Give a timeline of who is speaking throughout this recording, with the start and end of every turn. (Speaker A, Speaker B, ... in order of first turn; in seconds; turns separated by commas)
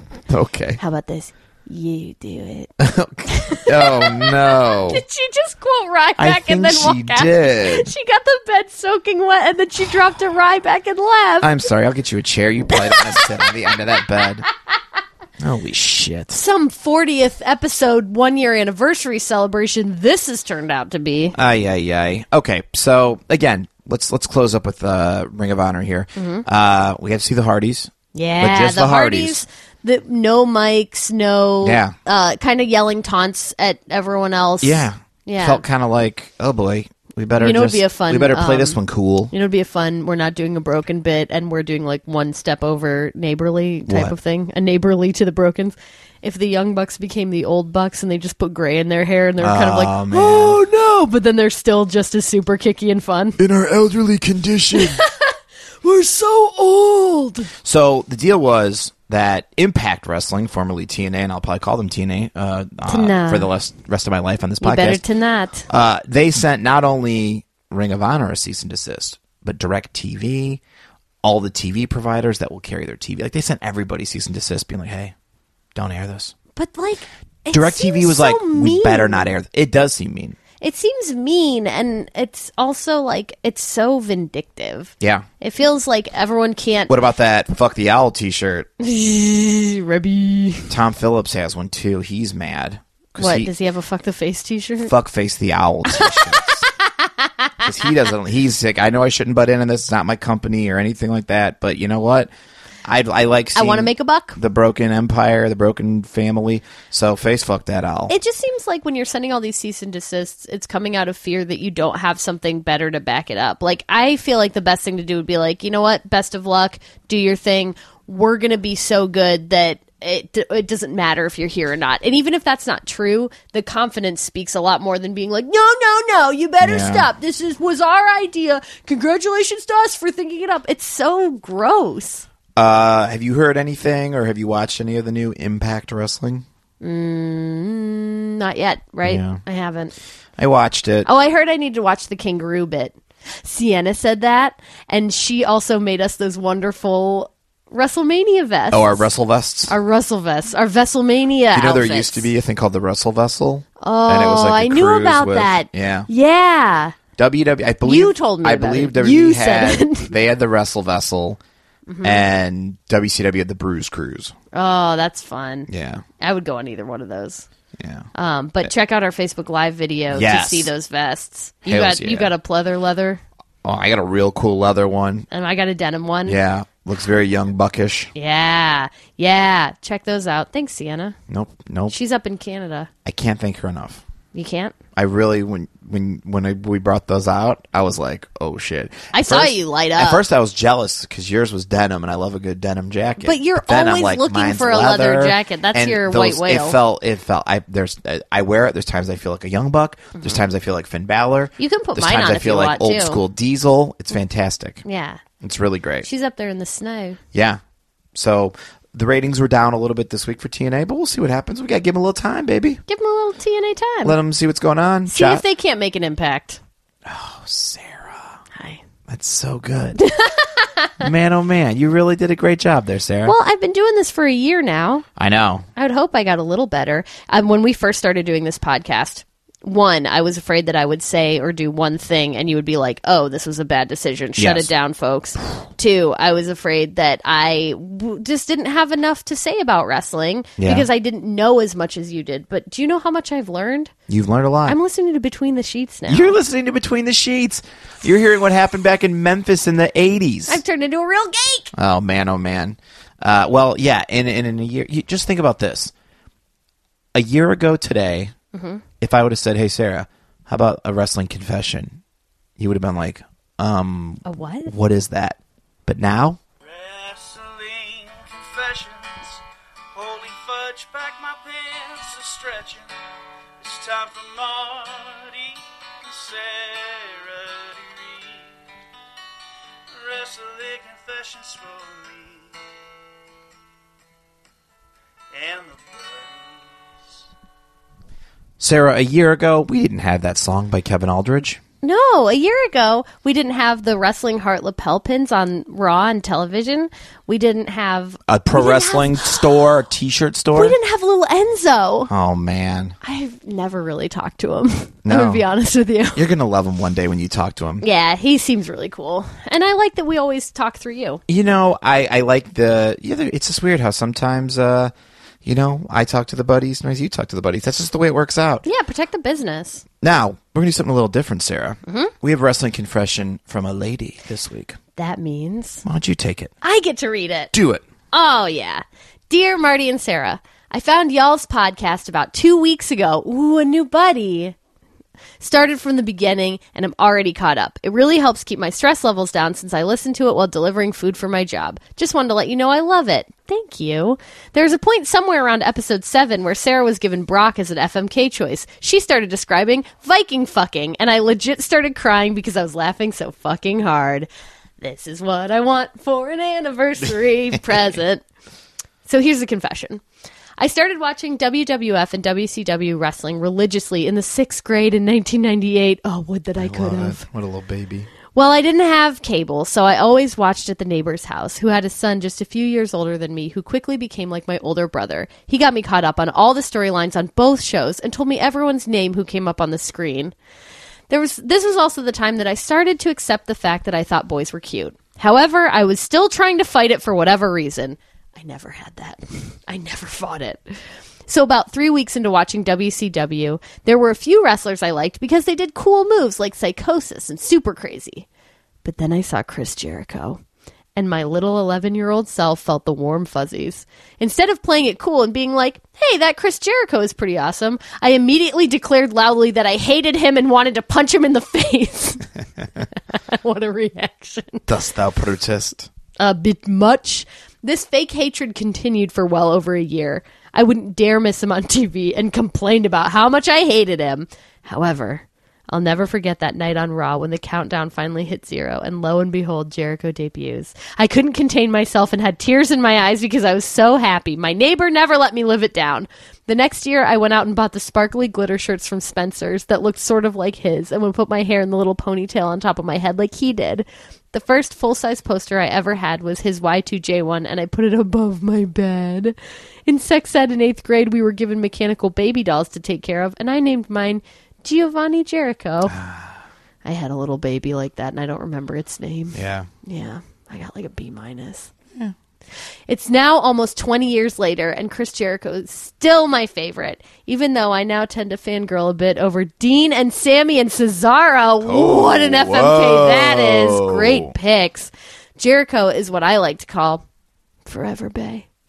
Speaker A: 0.3-0.8, Speaker B: 0.8-2.7, Speaker A: 2.8-5.0, Speaker B: 3.3-11.6, Speaker A: 6.2-7.9, Speaker A: 11.4-14.5, Speaker B: 12.8-13.3, Speaker A: 15.4-16.4, Speaker B: 16.3-21.4, Speaker A: 21.4-29.4, Speaker B: 26.2-26.4, Speaker B: 28.1-35.6, Speaker A: 31.6-32.0, Speaker A: 34.6-39.3, Speaker B: 37.4-38.8, Speaker B: 39.3-53.4, Speaker A: 43.9-44.1, Speaker A: 49.4-50.6, Speaker A: 53.4-55.0, Speaker B: 54.7-57.5, Speaker A: 57.6-65.0, Speaker B: 62.9-63.5, Speaker B: 64.6-65.7, Speaker A: 65.7-70.6, Speaker A: 71.2-75.1, Speaker A: 75.8-76.3, Speaker B: 76.5-79.3, Speaker A: 77.5-80.4, Speaker B: 80.6-86.9, Speaker A: 85.0-85.3, Speaker A: 86.9-88.7, Speaker B: 88.8-90.7, Speaker A: 90.7-93.5, Speaker B: 93.2-94.9, Speaker A: 94.8-96.7, Speaker B: 95.9-97.7, Speaker A: 97.6-102.3, Speaker A: 102.8-108.1, Speaker B: 103.5-104.4, Speaker B: 108.1-132.2, Speaker A: 126.6-127.1, Speaker A: 132.6-136.5, Speaker B: 136.8-139.9, Speaker A: 139.1-139.4, Speaker A: 140.4-141.1, Speaker B: 141.1-149.1, Speaker A: 148.7-149.8, Speaker B: 149.7-152.3, Speaker A: 151.5-156.1, Speaker B: 153.8-157.0, Speaker A: 157.2-161.4, Speaker B: 157.8-160.1, Speaker B: 161.9-162.3, Speaker A: 162.0-164.3, Speaker B: 164.5-167.4, Speaker A: 165.7-166.0, Speaker A: 167.8-168.1, Speaker B: 168.2-173.2, Speaker A: 170.1-170.7, Speaker A: 171.7-172.3, Speaker A: 173.6-175.3, Speaker B: 175.3-176.4, Speaker A: 176.3-178.1, Speaker B: 178.2-181.2, Speaker A: 181.3-181.9, Speaker B: 181.9-182.9, Speaker A: 183.1-184.0, Speaker B: 184.3-184.7, Speaker A: 185.0-204.8, Speaker B: 189.1-190.2, Speaker B: 193.2-196.8, Speaker B: 201.6-203.2, Speaker B: 204.8-205.2, Speaker A: 205.4-206.1, Speaker B: 206.0-207.2, Speaker A: 207.3-207.6, Speaker A: 208.1-212.8, Speaker B: 212.9-214.2, Speaker A: 214.0-215.4, Speaker B: 215.1-216.6, Speaker A: 217.1-218.4, Speaker B: 218.6-218.8, Speaker A: 219.1-220.0, Speaker B: 220.0-220.9, Speaker A: 221.0-223.3, Speaker B: 223.2-225.1, Speaker A: 225.2-225.7, Speaker B: 225.8-243.9, Speaker A: 234.4-234.7, Speaker A: 240.6-240.9, Speaker A: 244.1-244.8, Speaker B: 244.7-246.4, Speaker A: 246.1-250.6, Speaker B: 250.5-251.7, Speaker A: 251.7-255.9, Speaker A: 257.1-258.3, Speaker B: 258.5-258.8, Speaker A: 259.0-262.0, Speaker A: 262.6-266.4, Speaker B: 264.2-264.7, Speaker C: 266.6-269.4, Speaker C: 269.9-272.9, Speaker C: 273.6-278.6, Speaker C: 279.9-282.6, Speaker C: 285.3-287.0, Speaker A: 288.6-291.6, Speaker B: 291.8-299.4, Speaker A: 298.3-300.8, Speaker B: 300.6-302.1, Speaker A: 302.1-303.0, Speaker B: 303.0-306.2, Speaker A: 305.1-305.4, Speaker A: 306.1-307.9, Speaker B: 307.8-311.2, Speaker A: 311.3-314.9, Speaker A: 315.4-318.6, Speaker B: 318.6-319.8, Speaker A: 320.0-324.8, Speaker B: 321.9-322.1, Speaker B: 325.0-325.8, Speaker A: 325.8-326.5, Speaker B: 326.6-327.5, Speaker A: 327.5-327.8, Speaker B: 328.1-334.6, Speaker B: 335.4-354.3, Speaker B: 354.8-358.2, Speaker B: 359.1-360.0, Speaker B: 360.6-367.2, Speaker A: 366.6-368.1, Speaker B: 368.3-380.3, Speaker B: 381.1-398.3, Speaker B: 398.8-400.4, Speaker B: 401.0-412.3, Speaker B: 413.1-414.6, Speaker A: 414.7-415.9, Speaker B: 416.2-456.0, Speaker A: 455.9-456.4, Speaker B: 456.8-461.7, Speaker A: 459.3-459.7, Speaker B: 462.9-477.0, Speaker A: 471.6-474.3, Speaker B: 477.7-478.5